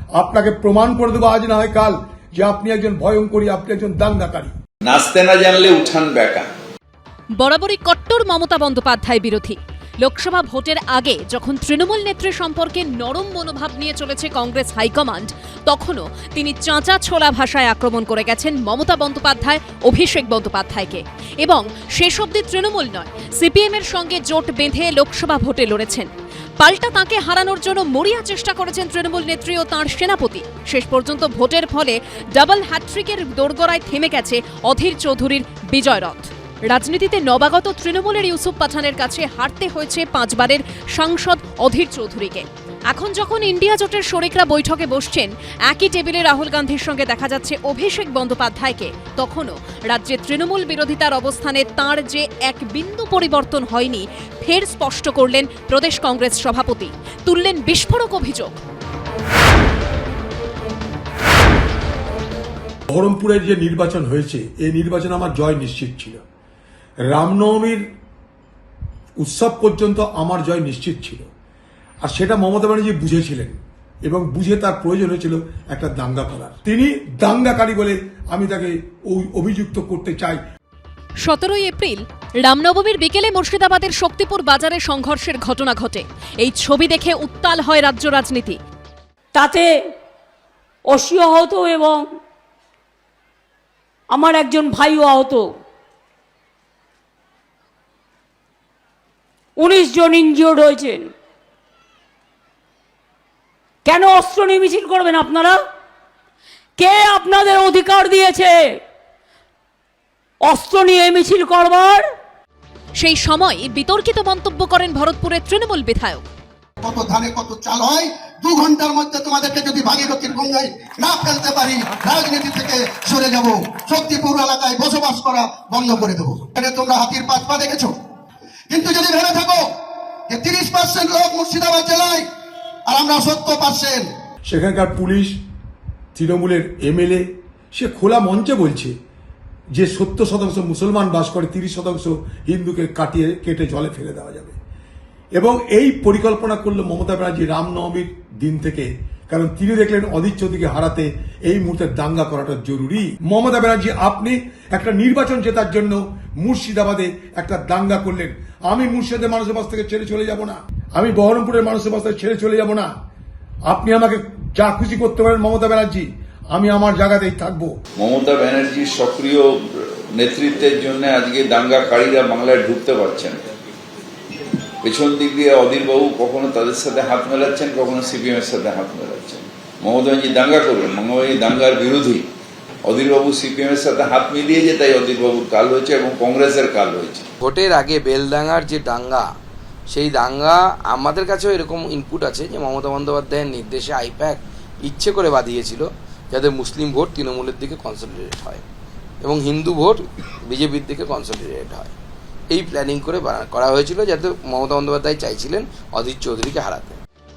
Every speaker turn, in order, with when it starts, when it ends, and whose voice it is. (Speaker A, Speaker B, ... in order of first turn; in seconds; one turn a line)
Speaker A: 0.2-4.5
Speaker B: 4.8-6.5
Speaker C: 7.4-26.1
Speaker C: 26.6-58.6
Speaker A: 62.9-66.2
Speaker A: 67.1-67.8
Speaker A: 69.2-71.3
Speaker A: 72.0-80.4
Speaker C: 81.2-88.6
Speaker D: 89.3-89.7
Speaker D: 90.9-92.1
Speaker D: 94.1-95.4
Speaker D: 99.6-101.1
Speaker D: 103.9-105.6
Speaker D: 106.8-108.6
Speaker D: 110.5-112.0
Speaker C: 113.0-116.2
Speaker E: 116.8-128.0
Speaker E: 128.7-129.7
Speaker E: 130.3-132.3
Speaker E: 132.9-134.1
Speaker A: 134.5-135.3
Speaker A: 136.2-138.9
Speaker A: 139.8-144.6
Speaker A: 145.4-162.9
Speaker A: 163.7-167.7
Speaker B: 168.0-173.5
Speaker B: 174.8-182.3
Speaker B: 182.8-187.3
Speaker F: 187.4-189.3
Speaker F: 189.9-198.6
Speaker F: 199.2-201.9
Speaker F: 202.5-207.0